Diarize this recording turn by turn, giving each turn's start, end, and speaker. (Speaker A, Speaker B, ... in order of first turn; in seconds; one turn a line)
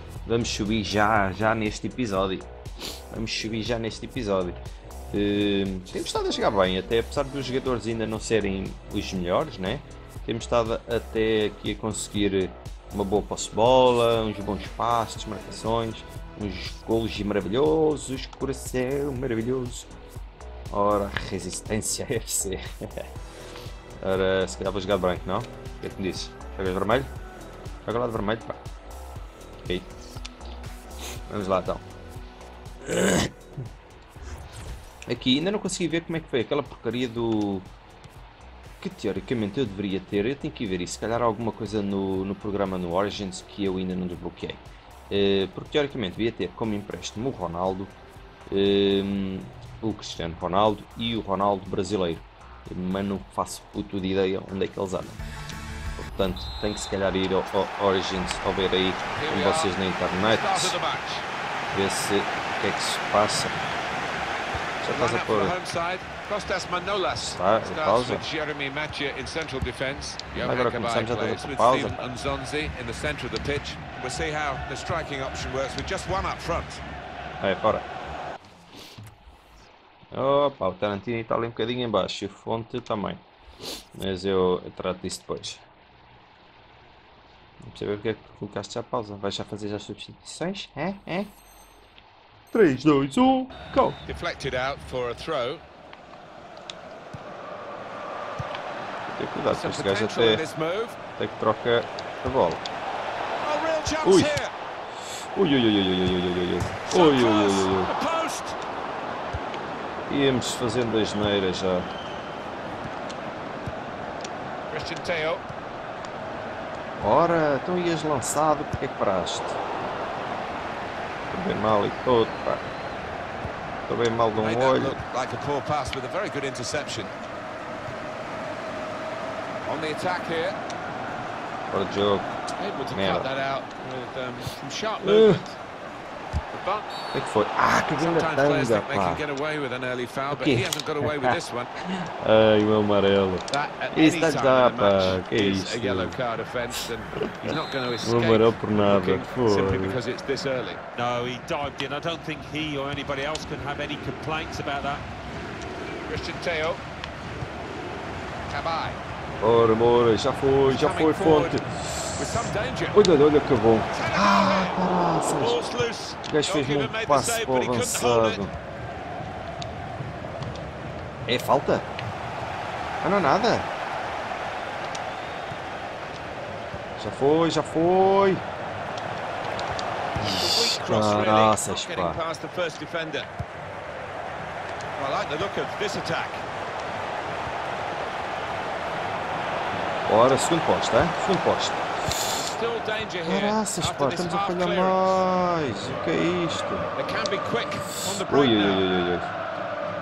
Speaker A: 0.2-2.5
Speaker A: 3.1-4.6
Speaker A: 5.1-19.9
Speaker A: 20.7-23.1
Speaker A: 24.0-27.1
Speaker A: 27.9-28.6
Speaker A: 29.6-29.9
Speaker A: 31.3-31.9
Speaker A: 32.8-33.3
Speaker A: 35.1-37.7
Speaker A: 38.8-47.9
Speaker A: 48.5-55.2
Speaker A: 56.0-60.8
Speaker B: 59.1-61.3
Speaker A: 61.7-63.6
Speaker A: 64.8-65.6
Speaker B: 64.9-76.8
Speaker A: 67.2-68.3
Speaker A: 70.4-72.1
Speaker A: 77.4-77.9
Speaker A: 80.1-83.2
Speaker A: 84.0-85.6
Speaker A: 87.6-91.3
Speaker A: 92.5-94.0
Speaker B: 94.0-95.6
Speaker A: 99.1-100.4
Speaker B: 99.5-101.0
Speaker A: 101.2-102.6
Speaker B: 103.4-104.5
Speaker A: 104.0-104.4
Speaker A: 105.1-107.9
Speaker B: 106.8-108.6
Speaker A: 110.1-111.9
Speaker B: 114.7-115.4
Speaker A: 117.0-119.6
Speaker A: 121.3-122.7
Speaker A: 123.9-125.0
Speaker B: 124.4-127.1
Speaker B: 129.7-130.6
Speaker A: 131.7-132.4
Speaker B: 132.6-135.6
Speaker A: 132.9-133.3
Speaker A: 135.0-135.4
Speaker B: 136.5-136.9
Speaker A: 137.1-139.2
Speaker B: 138.0-141.7
Speaker A: 140.3-146.2
Speaker B: 143.5-150.8
Speaker A: 147.2-150.0
Speaker C: 150.9-155.0
Speaker B: 156.1-156.8
Speaker B: 158.5-159.0
Speaker A: 159.4-165.6
Speaker B: 160.7-161.6
Speaker B: 162.2-163.1
Speaker B: 163.9-168.5
Speaker A: 166.2-168.5
Speaker A: 171.3-171.9
Speaker A: 173.0-173.7
Speaker A: 177.0-178.5
Speaker A: 180.2-182.2
Speaker B: 180.3-183.3
Speaker B: 184.9-186.4
Speaker A: 190.1-192.3
Speaker B: 192.3-195.2
Speaker A: 193.2-196.9
Speaker B: 197.0-198.9
Speaker A: 198.0-199.3